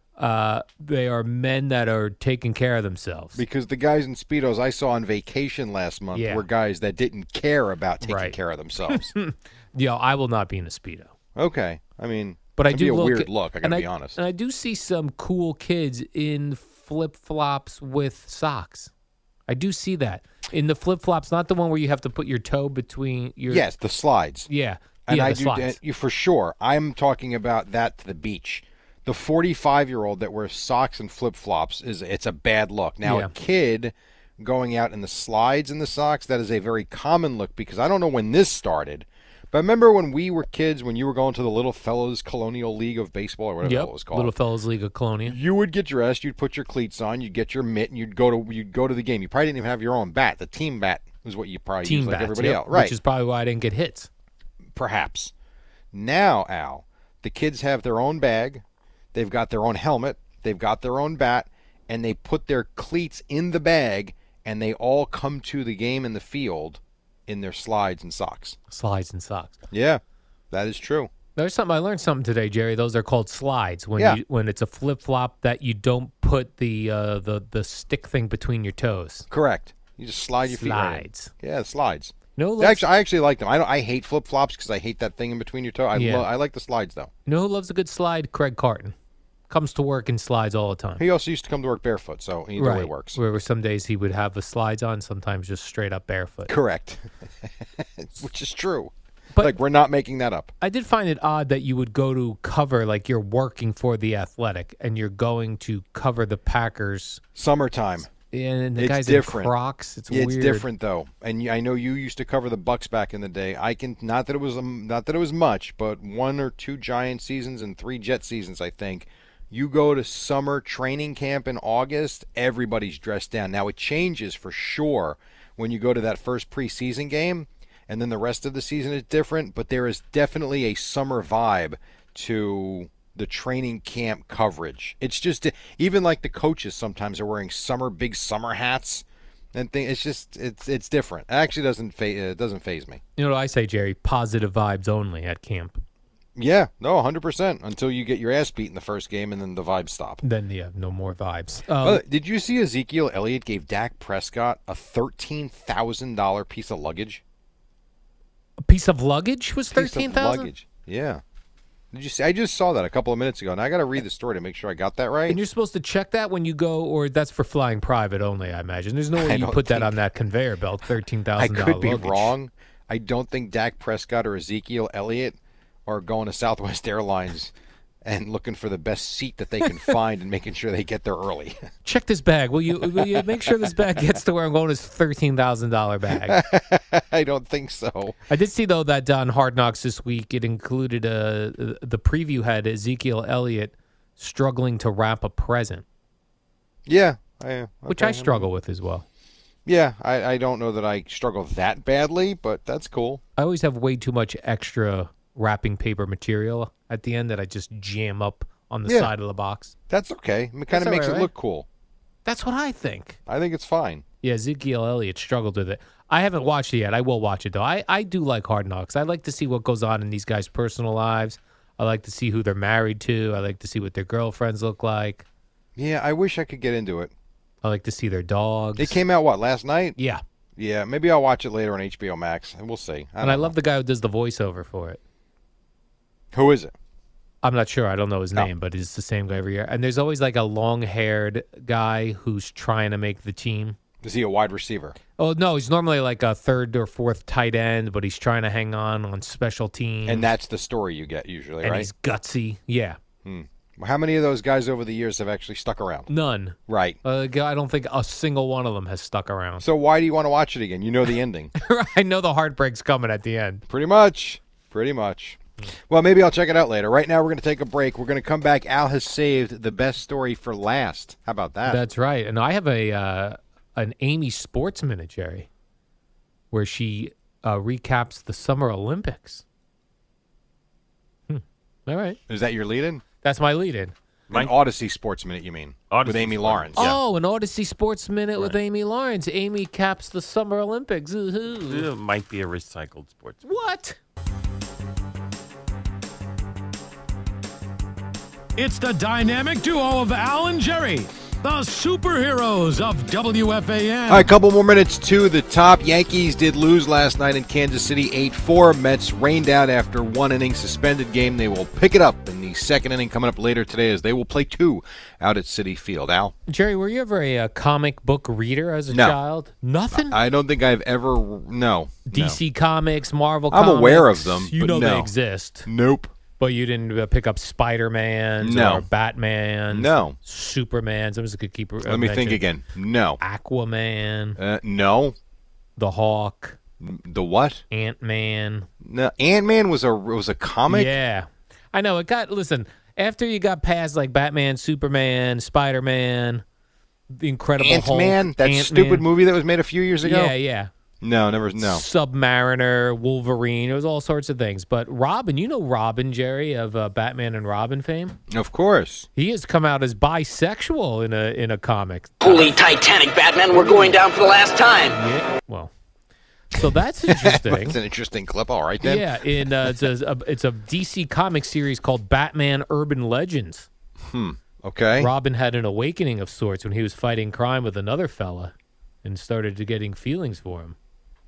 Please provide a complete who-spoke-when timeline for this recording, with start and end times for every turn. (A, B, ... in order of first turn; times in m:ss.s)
0:00.2-0:03.4 A
0:03.3-0:09.1 B
0:06.1-0:06.4 A
0:08.0-0:08.4 A
0:08.9-0:11.1 A
0:11.4-0:14.2 B
0:12.6-0:18.9 A
0:19.5-0:23.6 A
0:23.5-0:24.5 B
0:24.5-0:25.8 A
0:25.1-0:44.3 B
0:33.0-0:33.3 A
0:43.6-0:45.4 A
0:45.2-0:53.0 B
0:51.8-0:54.1 A
0:54.7-0:55.3 B
0:55.9-1:08.6 B
1:08.7-1:09.6 A
1:09.7-1:11.1 B
1:11.4-1:19.3 A
1:19.3-1:27.1 B
1:20.4-1:21.3 A
1:22.4-1:22.8 A
1:25.9-1:26.2 A
1:27.2-1:28.9 A
1:29.5-1:31.0 A
1:31.0-1:33.2 B
1:32.6-1:36.5 A
1:36.5-1:40.5 B
1:40.6-1:47.2 A
1:47.3-1:48.1 B
1:48.3-1:50.6 A
1:48.8-1:49.5 B
1:50.1-2:23.0 B
2:23.2-2:25.8 A
2:26.4-2:30.2 B
2:30.2-2:32.0 A
2:31.8-2:37.2 B
2:38.6-2:40.5 A
2:39.7-2:41.2 B
2:41.9-2:45.4 B
2:45.3-2:52.3 A
2:49.2-2:50.0 B
2:51.4-2:57.5 B
2:58.0-3:01.6 B
3:01.8-3:06.4 A
3:02.8-3:03.6 B
3:06.1-3:08.2 B
3:08.3-3:15.8 A
3:16.8-3:18.5 B
3:17.9-3:19.0 A
3:19.6-3:23.2 B
3:23.4-3:29.7 A
3:28.8-3:29.1 B
3:29.9-3:31.7 B
3:30.7-3:31.3 A
3:32.2-3:33.2 A
3:33.2-3:34.0 B
3:34.2-3:45.2 A
3:45.7-3:47.1 B
3:47.6-3:49.0 A
3:48.8-3:50.0 B
3:50.0-3:50.2 A
3:50.6-3:53.5 B
3:53.2-3:55.0 A
3:56.3-3:56.7 B
3:57.4-4:03.8 A
4:04.0-4:05.0 B
4:05.2-4:10.3 A
4:10.0-4:11.9 B
4:11.6-4:13.0 A
4:13.2-4:16.1 B
4:16.1-4:19.6 A
4:16.7-4:17.0 B
4:19.6-4:21.5 B
4:21.6-4:23.6 A
4:23.7-4:31.8 B
4:31.6-4:35.5 A
4:36.5-4:39.4 A
4:41.3-4:42.2 A
4:42.3-4:43.0 B
4:43.2-4:43.9 A
4:44.3-4:44.5 C
4:44.3-4:46.8 B
4:45.9-4:47.0 C
4:46.8-4:51.9 A
4:51.7-4:53.4 C
4:53.4-4:54.0 A
4:58.6-5:04.3 D
5:04.1-5:16.3 B
5:16.5-5:20.2 A
5:18.9-5:19.2 B
5:19.9-5:22.4 B
5:22.0-5:25.7 A
5:23.5-5:25.1 B
5:25.6-5:26.1 B
5:26.4-5:32.4 A
5:28.4-5:28.9 B
5:29.7-5:30.2 B
5:31.8-5:33.2 B
5:33.2-5:34.4 A
5:34.4-5:35.1 B
5:35.8-5:36.6 A
5:36.8-5:37.6 B
5:37.7-5:38.7 A
5:38.8-5:41.0 B
5:40.7-5:46.4 A
5:47.1-5:49.0 A
5:47.6-5:50.3 B
5:50.0-5:50.7 A
5:51.0-5:51.8 B
5:51.6-5:58.2 A
5:58.3-5:59.1 B
5:59.2-6:02.5 A
6:02.2-6:05.0 E
6:04.9-6:05.7 A
6:06.5-6:07.8 A
6:07.0-6:09.9 B
6:08.8-6:13.7 A
6:14.0-6:15.1 B
6:15.0-6:18.5 A
6:19.0-6:20.8 A